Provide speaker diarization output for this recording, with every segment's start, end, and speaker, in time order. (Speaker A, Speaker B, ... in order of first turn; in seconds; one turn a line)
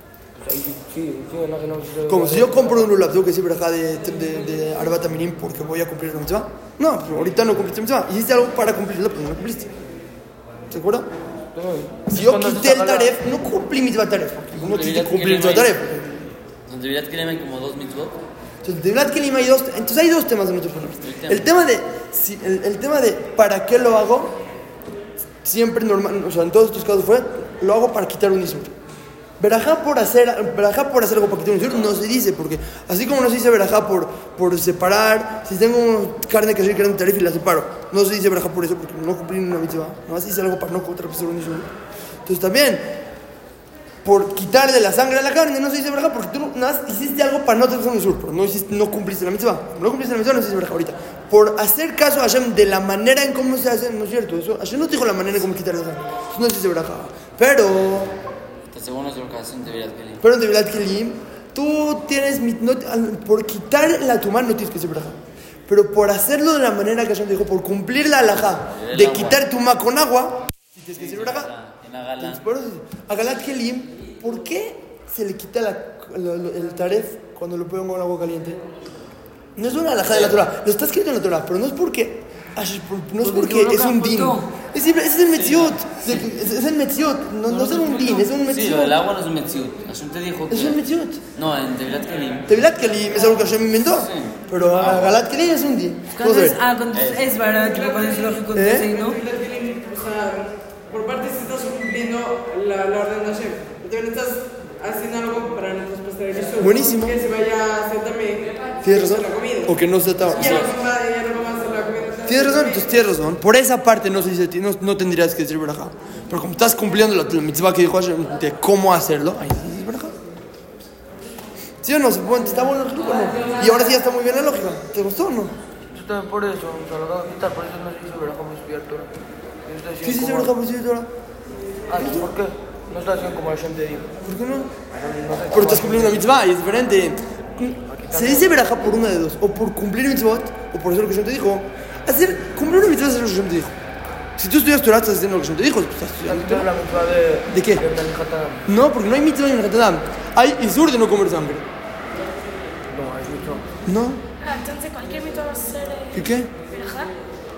Speaker A: 0.4-2.9
Speaker B: 2.1-9.7
Speaker B: 10.7-11.1
Speaker A: 11.5-13.2
Speaker B: 12.1-16.3
Speaker C: 14.6-15.8
Speaker C: 16.7-18.2
Speaker B: 18.6-24.4
Speaker C: 21.0-21.5
Speaker B: 25.4-28.7
Speaker B: 29.4-41.7
Speaker B: 42.2-43.0
Speaker B: 44.0-58.2
Speaker C: 58.7-60.2
Speaker B: 60.2-71.5
Speaker C: 68.7-69.4
Speaker C: 71.0-72.4
Speaker B: 72.2-78.6
Speaker B: 79.6-89.0
Speaker C: 80.1-80.5
Speaker D: 83.2-84.5
Speaker C: 85.3-86.2
Speaker D: 87.5-88.3
Speaker C: 88.5-90.8
Speaker B: 90.5-91.2
Speaker C: 91.3-92.6
Speaker B: 92.5-96.6
Speaker C: 93.3-95.2
Speaker D: 96.2-99.2
Speaker C: 96.9-97.3
Speaker E: 97.4-109.8
Speaker B: 98.5-98.9
Speaker B: 106.6-107.2
Speaker B: 108.8-110.7
Speaker C: 110.3-110.7
Speaker E: 110.3-112.9
Speaker B: 112.3-120.2
Speaker B: 121.8-125.5
Speaker A: 125.9-129.1
Speaker A: 129.7-130.5
Speaker B: 130.0-131.1
Speaker A: 131.9-134.1
Speaker B: 131.9-132.3
Speaker B: 134.2-134.7
Speaker A: 134.9-136.2
Speaker B: 135.5-143.7
Speaker A: 137.9-138.7
Speaker B: 144.4-146.7
Speaker A: 146.2-148.6
Speaker B: 147.5-147.8
Speaker B: 148.7-151.7
Speaker A: 152.9-153.7
Speaker B: 153.9-154.2
Speaker F: 154.4-157.2
Speaker B: 156.1-156.5